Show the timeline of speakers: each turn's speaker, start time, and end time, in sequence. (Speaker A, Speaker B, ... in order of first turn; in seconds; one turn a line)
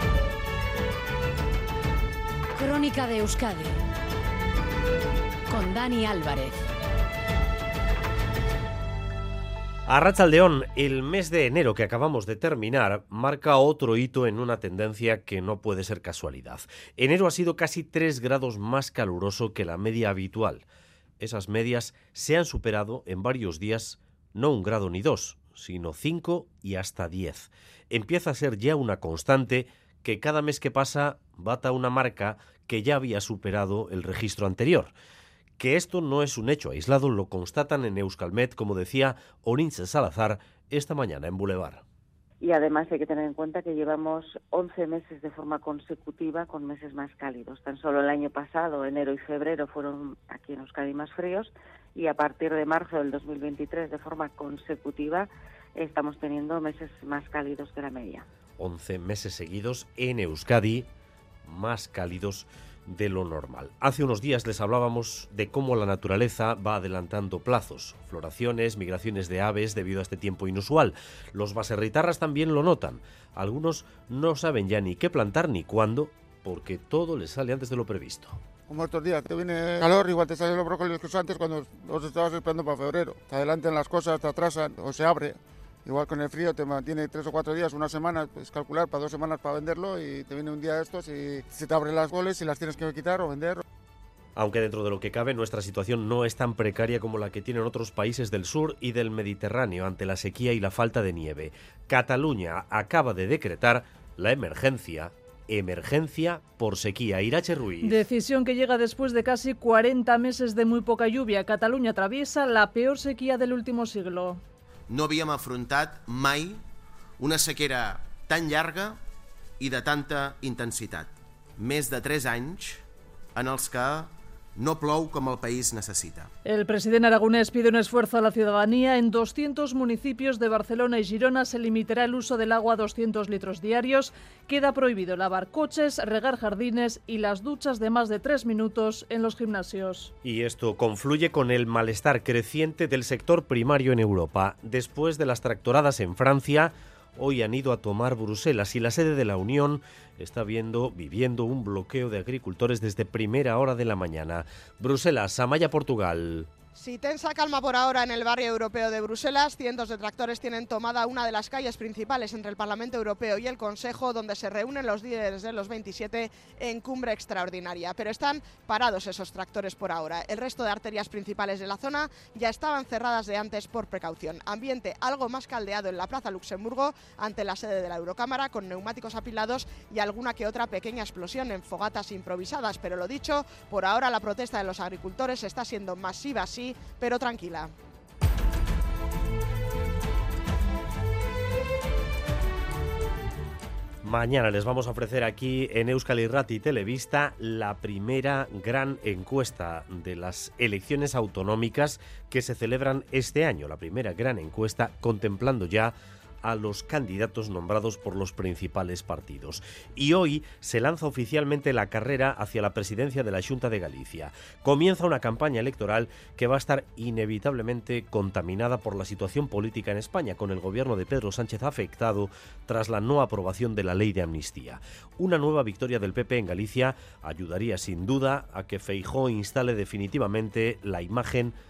Speaker A: 2.6-3.8
Speaker A: 5.5-6.6
Speaker B: 9.9-20.6
Speaker B: 21.2-34.9
Speaker B: 35.6-41.8
Speaker C: 42.4-58.3
Speaker B: 58.6-60.9
Speaker B: 61.5-78.4
Speaker D: 78.7-93.6
Speaker B: 94.4-108.0
Speaker E: 107.8-114.4
Speaker F: 115.0-116.6
Speaker F: 117.5-118.9
Speaker F: 119.7-120.1
Speaker F: 120.7-121.1
Speaker F: 121.8-122.8
Speaker F: 123.5-124.1
Speaker F: 124.7-126.2
Speaker E: 126.5-140.1
Speaker B: 140.2-156.5
Speaker G: 156.8-187.7
Speaker B: 194.0-231.6